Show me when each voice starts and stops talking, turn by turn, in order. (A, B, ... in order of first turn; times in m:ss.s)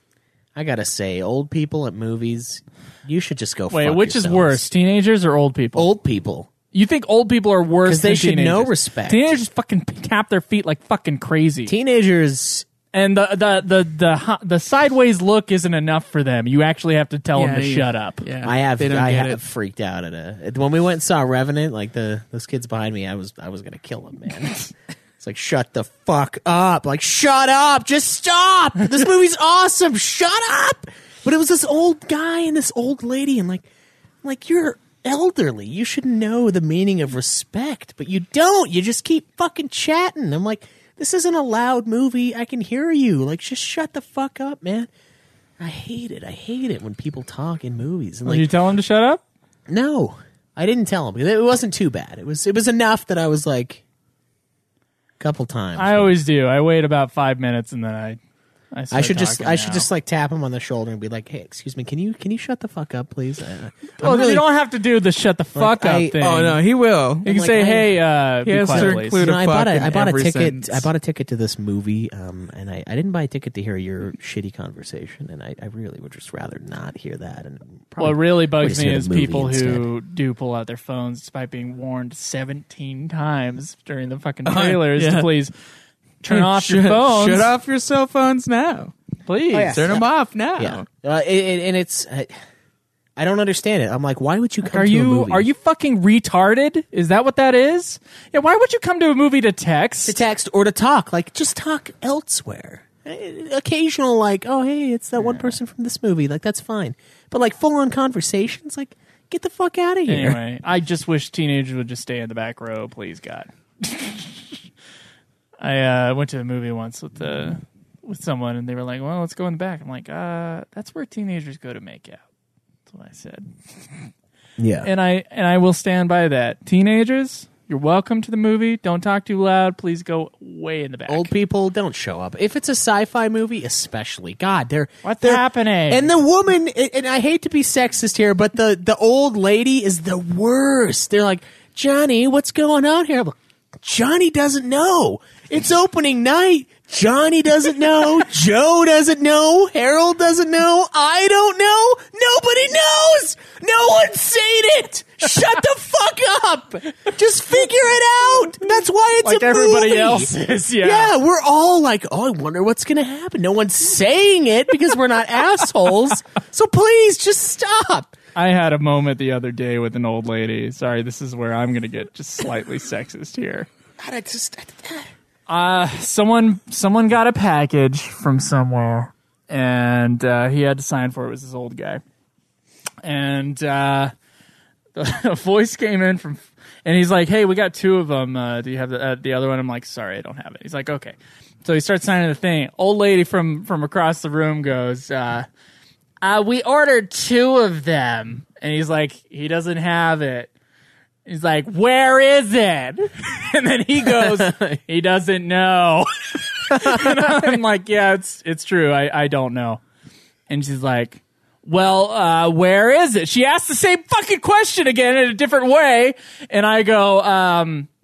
0:00.5-0:04.7 A
0:03.7-0:05.9 B
0:05.7-0:06.5 A
0:06.7-0:11.7 B
0:07.8-0:09.3 A
0:11.7-0:12.7 A
0:12.9-0:18.2 B
0:17.3-0:19.4 C
0:18.4-0:33.6 A
0:34.2-0:44.9 A
0:45.6-0:48.5 A
0:48.2-0:49.2 B
0:49.7-0:53.8 A
0:55.2-0:56.1 A
0:55.8-0:58.2 B
0:58.7-0:59.9 B
0:58.9-1:04.5 A
1:04.0-1:06.6 B
1:05.6-1:06.2 A
1:06.2-1:07.3 C
1:07.2-1:09.2 B
1:07.2-1:08.0 A
1:08.4-1:10.9 C
1:08.7-1:19.9 A
1:18.0-1:25.5 B
1:24.4-1:25.3 C
1:26.2-1:27.5 B
1:26.3-1:28.9 C
1:29.3-1:29.8 B
1:29.5-1:32.3 A
1:29.7-1:30.8 C
1:33.2-1:35.5 A
1:34.6-1:40.2 B
1:40.0-1:50.4 A
1:45.2-1:45.5 B
1:50.1-1:54.6 B
1:55.6-2:02.2 B
2:02.9-2:04.1 B
2:04.6-2:04.9 A
2:04.8-2:11.3 B
2:11.1-2:48.1 A
2:15.0-2:16.1 B
2:39.2-2:41.1 B
2:48.3-2:53.7 B
2:54.0-2:55.1 A
2:55.5-3:02.0 B
3:03.0-3:04.1 B
3:05.0-3:15.5 B
3:16.2-3:20.5 B
3:21.2-3:29.8 B
3:24.0-3:24.8 A
3:26.7-3:27.4 A
3:30.5-3:37.9 B